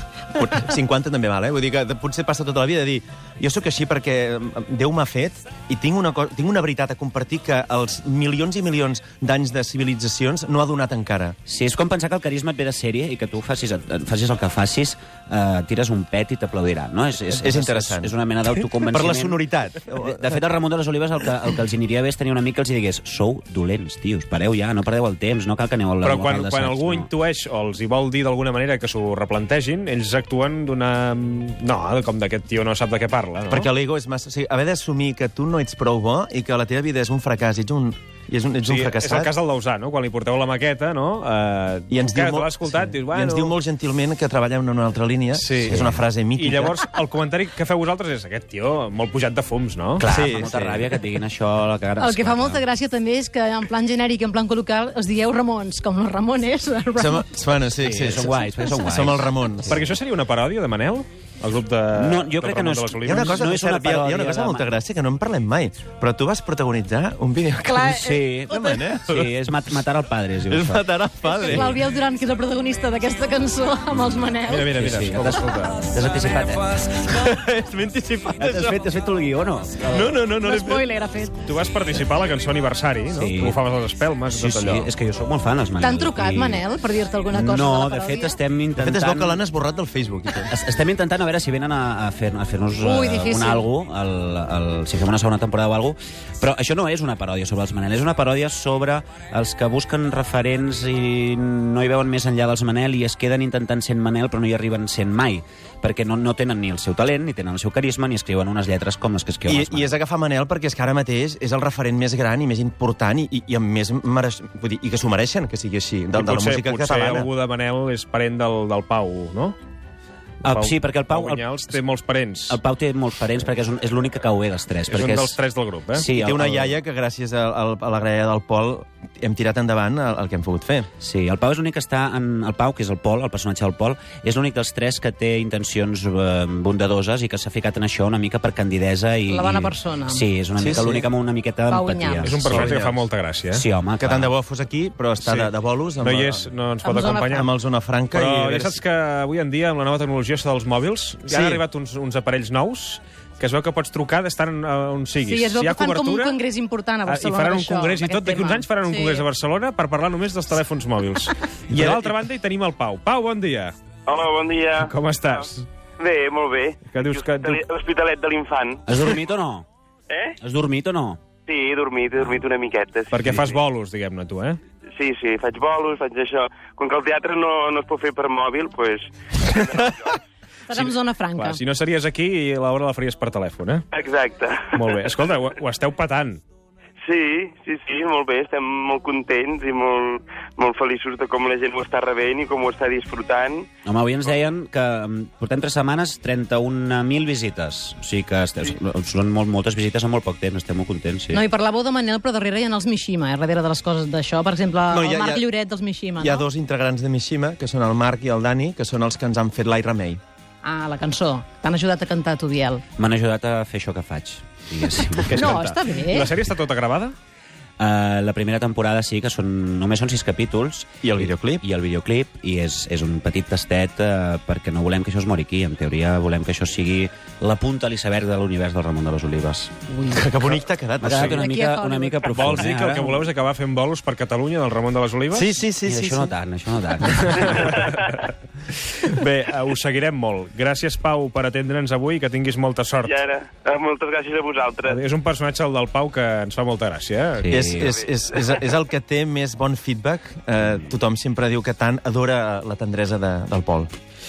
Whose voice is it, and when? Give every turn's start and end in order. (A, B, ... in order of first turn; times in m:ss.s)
0:00.3-0:11.4 A
0:11.5-0:19.5 B
0:17.3-0:18.1 A
0:18.8-0:20.4 A
0:20.0-0:27.1 B
0:26.0-0:33.7 C
0:33.5-0:39.3 A
0:38.6-0:43.6 C
0:41.9-0:46.8 A
0:45.3-0:45.8 C
0:46.4-0:50.1 C
0:50.0-0:52.6 B
0:50.1-0:51.0 A
0:52.0-0:57.3 D
0:57.0-0:59.8 A
0:57.8-0:59.3 B
0:59.7-1:03.5 C
1:01.9-1:04.7 B
1:03.0-1:07.9 A
1:07.6-1:08.8 D
1:07.8-1:10.8 B
1:08.5-1:09.3 A
1:10.5-1:11.7 A
1:11.2-1:14.8 D
1:11.4-1:11.8 B
1:14.5-1:15.8 C
1:14.7-1:16.9 B
1:16.9-1:18.9 A
1:18.4-1:20.2 B
1:19.9-1:20.8 C
1:19.9-1:21.4 D
1:21.4-1:24.9 C
1:23.1-1:23.6 B
1:24.3-1:26.6 B
1:25.8-1:28.4 D
1:27.3-1:29.4 B
1:28.8-1:30.5 A
1:30.4-1:49.9 B
1:32.8-1:33.7 D
1:49.5-1:57.3 A
1:56.1-1:59.6 C
2:00.4-2:01.8 B
2:00.4-2:02.6 C
2:02.5-2:05.4 B
2:04.9-2:06.1 C
2:05.9-2:06.8 B
2:06.1-2:10.9 A
2:11.0-2:22.7 B
2:19.3-2:20.2 D
2:20.6-2:21.1 A
2:21.7-2:22.4 D
2:22.2-2:23.6 C
2:22.5-2:23.0 A
2:23.5-2:24.3 B
2:24.0-2:26.5 A
2:25.2-2:25.5 C
2:26.0-2:27.5 C
2:26.8-2:27.5 D
2:27.2-2:28.8 A
2:28.1-2:36.4 C
2:31.3-2:31.6 A
2:35.2-2:39.3 D
2:37.1-2:43.8 C
2:41.7-2:42.1 A
2:44.1-2:45.4 E
2:44.8-2:45.7 C
2:46.0-2:49.0 E
2:46.9-2:47.6 C
2:48.9-2:49.7 B
2:50.1-2:50.4 E
2:50.4-2:51.2 B
2:51.5-2:53.3 E
2:53.1-2:54.6 C
2:55.0-3:00.2 E
3:00.7-3:01.6 D
3:00.7-3:03.9 C
3:03.9-3:05.0 E
3:04.7-3:06.4 C
3:07.0-3:13.7 E
3:13.8-3:21.4 B
3:21.3-3:26.4 D
3:24.9-3:25.5 A
3:26.2-3:30.2 A
3:30.6-3:32.8 D
3:33.0-3:35.6 B
3:35.3-3:37.2 C
3:35.3-3:36.3 D
3:37.8-3:49.8 B
3:41.0-3:41.6 A
3:49.9-3:50.3 D
3:50.1-3:51.4 A
3:51.0-3:53.2 B
3:51.2-3:52.7 D
3:52.3-3:55.5 C
3:55.3-3:56.3 A
3:55.8-3:57.9 B
3:57.2-3:58.3 C
3:59.0-4:03.2 C
4:03.0-4:05.0 E
4:04.8-4:07.6 C
4:07.4-4:08.0 B
4:07.5-4:13.9 A